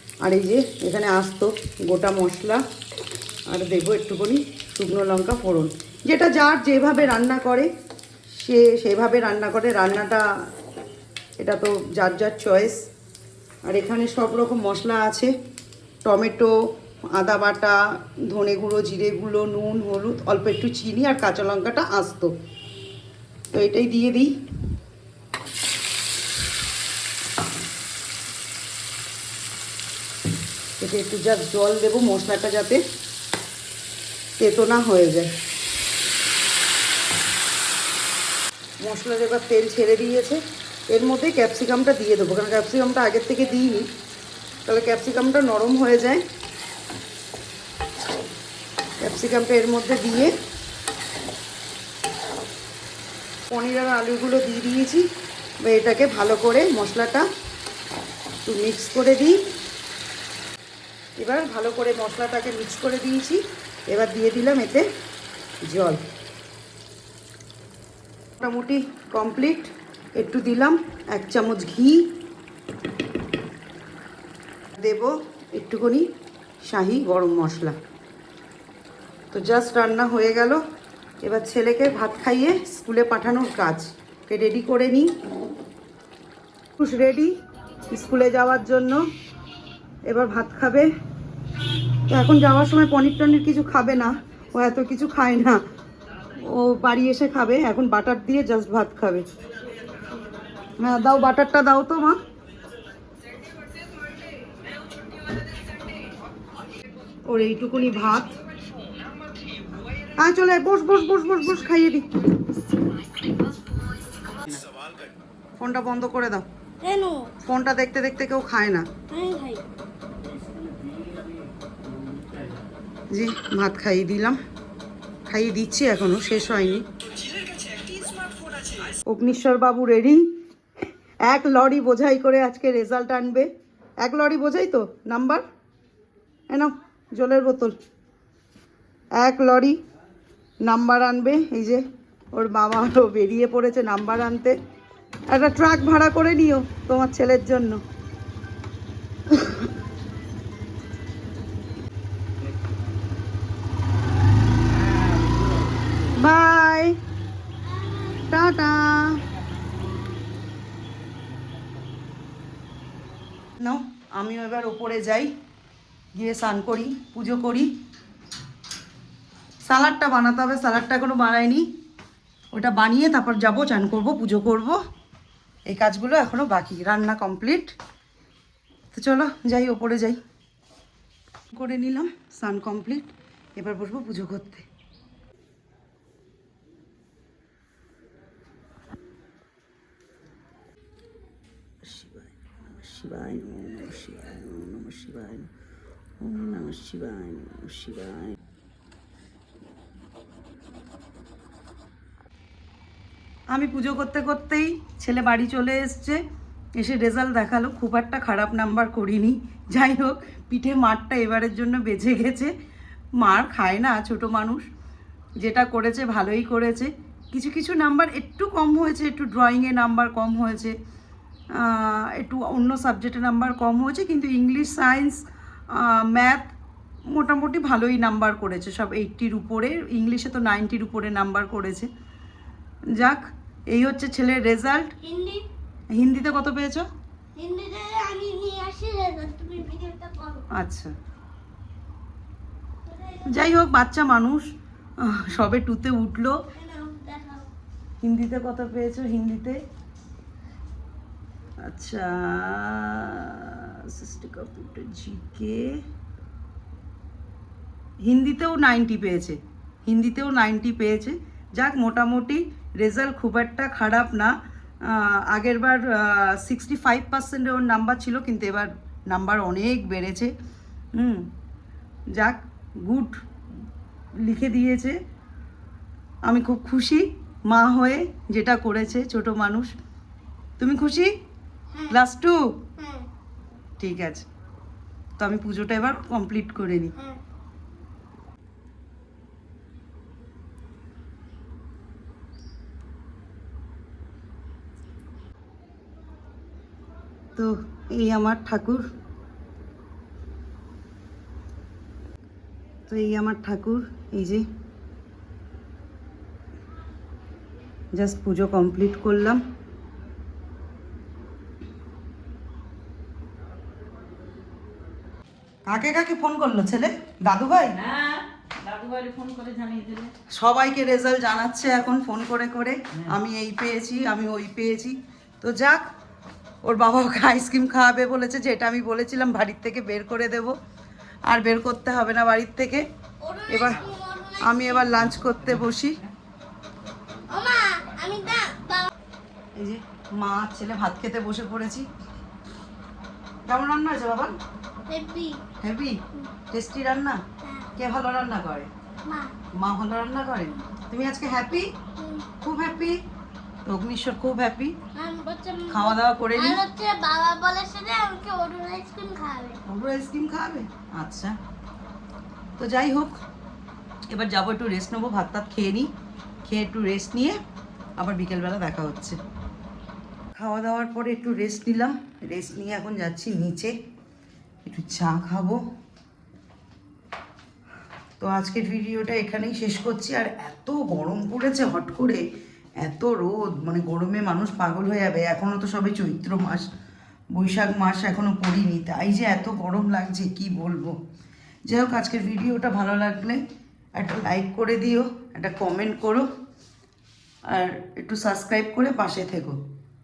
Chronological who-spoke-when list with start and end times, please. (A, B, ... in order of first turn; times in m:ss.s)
0:00.2-0:02.6 A
0:03.5-0:07.7 A
0:08.3-0:10.5 A
0:11.4-0:12.8 A
0:13.7-0:15.3 A
0:16.0-0:16.5 A
0:17.1-0:22.3 A
0:23.5-0:24.3 A
0:30.8-0:32.8 A
0:34.4-0:35.3 A
0:38.8-0:43.9 A
0:44.7-0:46.2 A
0:49.0-0:50.3 A
0:53.5-0:55.1 A
0:55.6-0:57.3 A
0:58.4-0:59.4 A
1:01.2-1:04.9 A
1:05.7-1:06.0 A
1:08.4-1:12.1 A
1:14.8-1:16.1 A
1:16.6-1:17.8 A
1:19.3-1:20.6 A
1:21.2-1:25.1 A
1:26.8-1:27.4 A
1:27.9-1:29.1 A
1:30.1-1:30.9 A
1:32.1-1:35.6 A
1:36.4-1:39.3 A
1:40.8-1:42.2 A
1:47.3-1:48.4 A
1:50.2-1:52.1 A
1:55.6-1:56.5 A
1:56.8-1:57.3 B
1:57.4-1:58.9 A
1:59.1-1:59.6 B
2:03.1-2:04.4 A
2:05.3-2:06.9 A
2:09.0-2:10.3 A
2:11.2-2:13.5 A
2:14.0-2:15.4 A
2:16.5-2:17.8 A
2:19.2-2:19.8 A
2:20.6-2:24.6 A
2:25.3-2:27.8 A
2:29.3-2:29.6 A
2:36.1-2:37.0 A
2:37.8-2:38.3 B
2:38.3-2:39.2 A
2:43.6-2:45.3 A
2:46.2-2:47.7 A
2:49.6-2:51.7 A
2:52.5-2:54.8 A
2:55.7-2:57.8 A
2:58.9-3:00.2 A
3:01.5-3:04.7 A
3:11.8-3:15.5 A
3:16.2-3:18.4 A
3:23.5-3:26.2 A
3:26.8-3:32.5 A
3:33.2-3:34.7 A
3:35.4-3:40.8 A
3:41.5-3:46.5 A
3:47.1-3:51.9 A
3:52.9-3:54.9 A
3:55.0-3:55.4 B
3:55.9-3:56.9 A
3:57.4-4:00.5 B
4:00.5-4:00.9 A
4:02.9-4:03.5 B
4:03.2-4:06.4 A
4:06.6-4:07.5 B
4:08.0-4:09.6 A
4:11.6-4:15.8 A
4:18.0-4:30.3 A
4:31.0-4:31.3 A
4:32.1-4:33.2 A
4:34.2-4:35.0 A
4:36.2-4:39.7 A
4:40.6-4:41.2 A
4:41.9-4:42.6 A
4:42.8-4:43.1 B
4:43.8-4:44.3 A
4:45.2-4:46.9 A
4:47.0-4:47.2 B
4:57.4-4:58.9 A
5:02.9-5:04.5 A
5:07.9-5:09.4 A
5:15.7-5:17.8 A
5:17.8-5:20.1 C
5:20.3-5:25.9 A
5:26.6-5:30.6 A
5:31.3-5:32.9 A
5:33.2-5:35.0 B
5:33.5-5:33.8 A
5:34.4-5:36.0 A
5:37.3-5:38.9 B
5:39.6-5:41.9 A
5:43.5-5:44.4 A
5:44.9-5:45.4 B
5:45.6-5:47.2 A
5:47.4-5:47.7 B
5:47.8-5:48.7 A
5:49.0-5:49.4 B
5:49.5-5:51.7 A
5:52.0-5:52.3 B
5:52.4-5:53.0 A
5:53.6-5:54.8 A
5:55.0-5:59.6 B
5:55.7-5:56.6 A
5:59.7-6:01.4 A
6:02.6-6:03.2 A
6:04.1-6:05.9 A
6:06.4-6:07.4 A
6:08.0-6:09.2 A
6:10.4-6:13.8 A
6:14.6-6:15.6 A
6:18.2-6:22.2 A
6:22.8-6:26.7 A
6:27.3-6:31.0 A
6:31.7-6:33.4 A
6:34.0-6:36.3 A
6:37.5-6:39.6 A